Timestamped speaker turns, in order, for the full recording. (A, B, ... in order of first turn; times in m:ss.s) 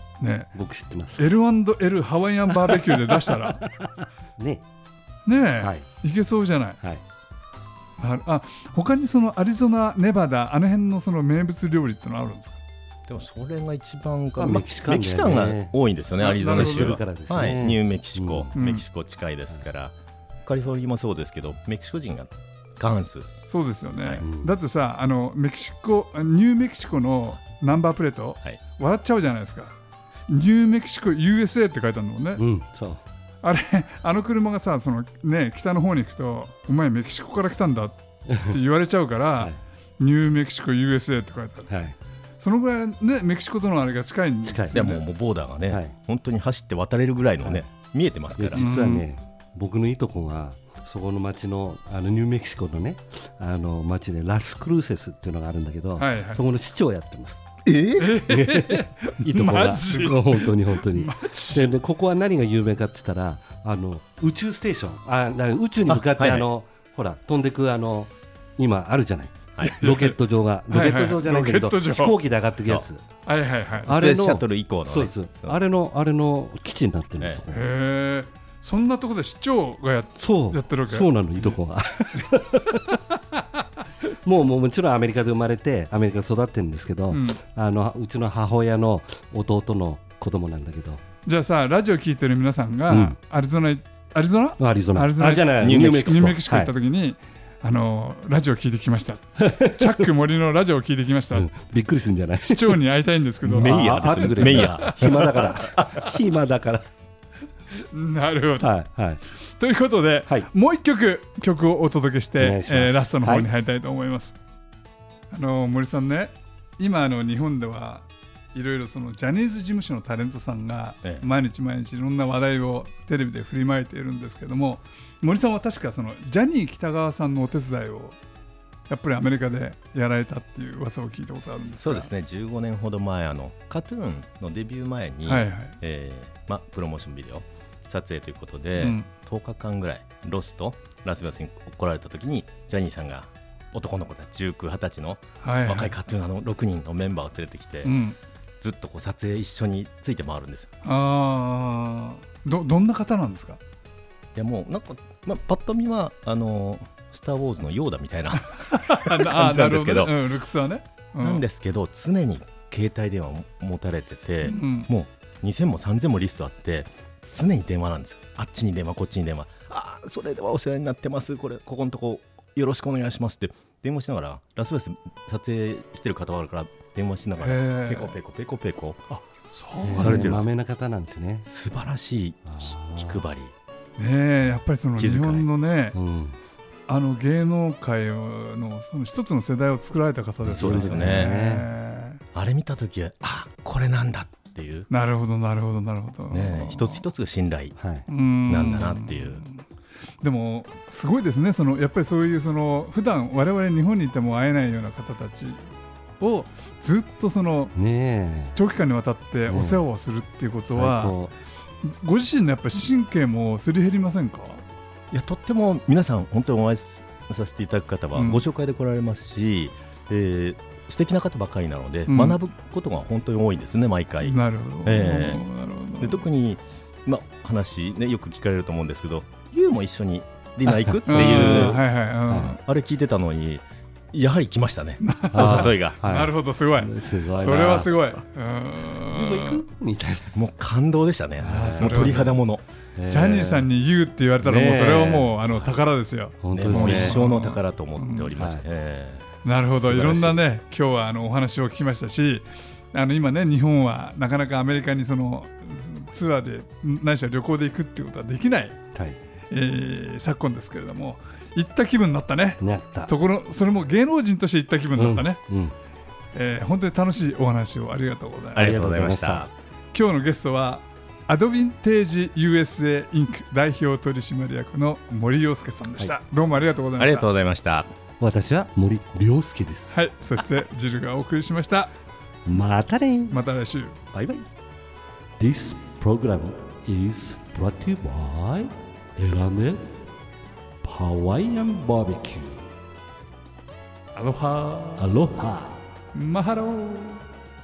0:00.2-0:00.5 A
0:00.5-0:01.3 B
0:01.2-0:03.6 A
0:02.5-0:04.6 B
0:05.2-0:06.8 A
0:08.0-0:12.6 A
0:13.1-0:23.3 C
0:14.4-0:15.8 B
0:16.2-0:17.0 A
0:16.3-0:18.5 B
0:18.5-0:18.8 A
0:23.5-0:29.7 A
0:24.2-0:24.5 B
0:30.3-0:32.4 A
0:32.4-0:33.0 B
0:33.4-0:41.7 A
0:38.3-0:38.6 B
0:41.7-0:42.0 B
0:42.4-0:45.0 A
0:44.4-0:44.9 B
0:44.7-0:48.7 C
0:48.4-0:57.4 B
0:48.5-0:49.0 A
0:56.0-0:56.4 A
0:57.6-0:58.3 C
0:58.0-1:01.7 A
0:58.3-1:13.0 B
1:05.8-1:06.4 C
1:09.6-1:09.9 C
1:09.6-1:10.2 A
1:10.7-1:12.2 A
1:13.2-1:14.0 A
1:13.8-1:15.6 C
1:13.9-1:17.7 B
1:17.5-1:21.6 A
1:20.2-1:23.0 B
1:24.1-1:31.0 B
1:27.1-1:27.4 A
1:31.2-1:41.5 A
1:32.9-1:33.2 B
1:34.6-1:36.7 B
1:35.6-1:36.4 C
1:39.4-1:40.0 B
1:41.3-1:42.8 B
1:42.4-1:45.4 A
1:43.4-1:46.1 C
1:43.5-1:46.8 B
1:47.9-1:48.7 A
1:48.6-1:49.2 B
1:49.3-1:54.4 A
1:52.4-1:53.5 B
1:55.3-2:08.2 A
2:08.9-2:12.1 A
2:11.8-2:28.0 C
2:15.2-2:15.8 A
2:18.8-2:19.1 A
2:25.4-2:25.9 A
2:27.8-2:28.2 A
2:28.6-2:30.7 C
2:30.8-2:33.6 A
2:34.3-2:40.3 C
2:38.4-2:41.4 A
2:41.2-2:59.0 C
2:44.4-2:44.9 A
2:57.4-2:58.2 A
2:59.1-3:00.4 A
2:59.8-3:01.5 B
3:00.0-3:00.5 C
3:01.4-3:03.5 C
3:02.4-3:03.2 B
3:04.0-3:06.0 A
3:05.0-3:05.5 C
3:05.9-3:06.4 B
3:06.9-3:12.2 A
3:10.4-3:11.7 B
3:10.5-3:11.3 C
3:12.3-3:14.9 C
3:14.9-3:17.0 A
3:16.3-3:17.8 C
3:17.8-3:18.0 B
3:18.1-3:19.6 A
3:18.5-3:19.4 C
3:20.2-3:25.6 A
3:26.2-3:27.7 A
3:27.7-3:28.6 B
3:28.5-3:31.2 A
3:29.5-3:29.8 B
3:30.7-3:31.3 B
3:31.8-3:34.6 A
3:35.1-3:45.4 C
3:38.1-3:38.4 A
3:42.1-3:42.4 A
3:44.2-3:46.2 A
3:46.0-3:51.8 C
3:50.7-3:52.6 B
3:51.1-3:52.6 A
3:52.6-3:56.0 C
3:55.0-3:59.6 A
3:55.3-3:58.0 B
3:59.1-4:00.4 B
4:00.3-4:02.6 C
4:01.4-4:02.3 B
4:01.4-4:02.4 A
4:03.0-4:03.7 B
4:03.1-4:08.3 A
4:04.4-4:05.8 B
4:06.4-4:07.2 B
4:06.5-4:09.2 C
4:08.4-4:08.6 B
4:09.4-4:18.8 A
4:09.9-4:10.4 C
4:19.5-4:25.4 A
4:22.6-4:23.1 B
4:25.0-4:25.7 B
4:26.3-4:28.8 A
4:28.5-4:29.5 C
4:28.6-4:29.5 B
4:29.9-4:37.3 A
4:37.0-4:37.9 C
4:38.2-4:40.0 B
4:39.9-4:41.9 A
4:42.5-4:43.4 B
4:43.3-4:44.0 A
4:44.1-4:44.4 B
4:45.4-4:49.9 B
4:50.8-4:52.6 B
4:54.1-4:55.1 A
4:55.0-4:55.8 B
4:56.1-4:57.2 A